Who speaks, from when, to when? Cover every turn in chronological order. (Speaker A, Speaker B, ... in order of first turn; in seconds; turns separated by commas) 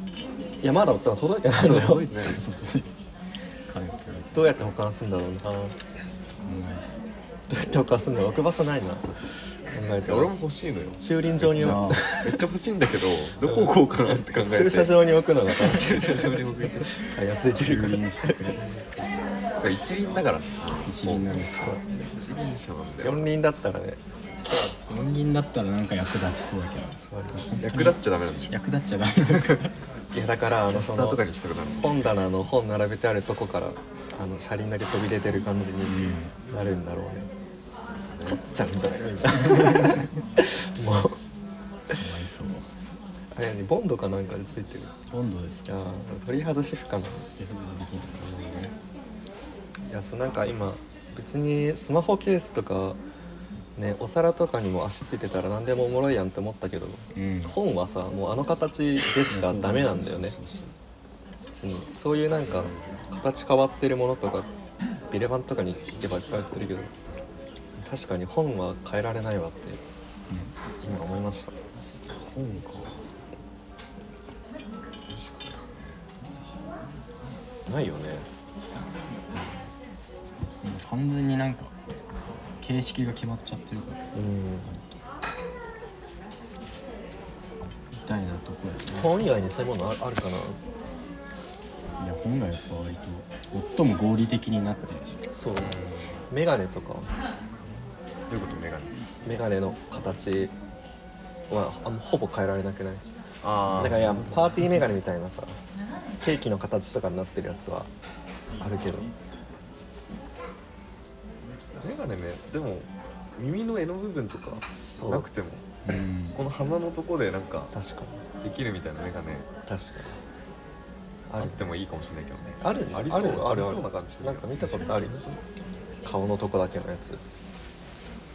Speaker A: 0.6-2.1, Speaker B: 1.6-2.4, Speaker C: 1.6-2.9, Speaker C: 3.7-4.6, Speaker A: 4.3-5.8, Speaker C: 6.2-6.9, Speaker A: 7.5-9.1, Speaker A: 9.7-10.3, Speaker B: 10.1-16.9, Speaker A: 11.0-12.2, Speaker C: 11.4-12.4, Speaker A: 13.4-13.8, Speaker A: 14.3-18.6, Speaker C: 17.5-18.7, Speaker B: 19.6-21.3, Speaker C: 20.9-21.8, Speaker A: 21.4-22.1, Speaker B: 22.1-23.3, Speaker A: 23.0-24.0, Speaker C: 24.5-29.8, Speaker A: 27.0-27.5, Speaker B: 27.6-28.5, Speaker A: 30.1-31.2, Speaker B: 30.6-31.9, Speaker A: 31.8-36.0, Speaker C: 35.9-36.4, Speaker A: 36.5-37.3, Speaker B: 38.0-38.4, Speaker A: 38.3-41.2, Speaker C: 39.5-40.0, Speaker C: 42.0-42.7, Speaker A: 43.3-44.9, Speaker C: 45.1-45.7, Speaker A: 45.7-47.3, Speaker C: 47.4-48.3, Speaker B: 48.2-48.7, Speaker A: 49.9-53.0, Speaker A: 53.8-60.4, Speaker C: 57.1-57.6, Speaker C: 59.3-60.7, Speaker A: 61.5-64.5, Speaker A: 65.1-66.9, Speaker A: 67.8-69.8, Speaker C: 70.3-70.5, Speaker A: 70.8-71.5, Speaker C: 72.2-72.9, Speaker B: 72.3-72.9, Speaker B: 75.1-76.0, Speaker A: 77.7-78.3, Speaker C: 79.3-79.6, Speaker C: 80.6-81.7, Speaker C: 82.5-85.0, Speaker A: 84.2-84.7, Speaker C: 87.9-89.2, Speaker A: 88.9-90.6, Speaker C: 92.0-95.2, Speaker A: 95.3-95.8, Speaker B: 95.6-96.2, Speaker A: 96.3-97.1, Speaker B: 98.3-99.0, Speaker A: 99.2-100.5, Speaker A: 101.5-103.0, Speaker B: 103.4-104.5, Speaker A: 103.7-105.6, Speaker A: 106.2-107.9, Speaker A: 108.6-109.1, Speaker B: 111.8-117.7, Speaker A: 114.7-115.3, Speaker C: 115.9-116.4, Speaker A: 117.7-118.2, Speaker B: 118.4-119.5, Speaker A: 119.7-120.2, Speaker A: 121.3-121.6, Speaker B: 121.4-125.4, Speaker A: 122.6-125.2, Speaker C: 124.6-125.0, Speaker A: 126.0-127.2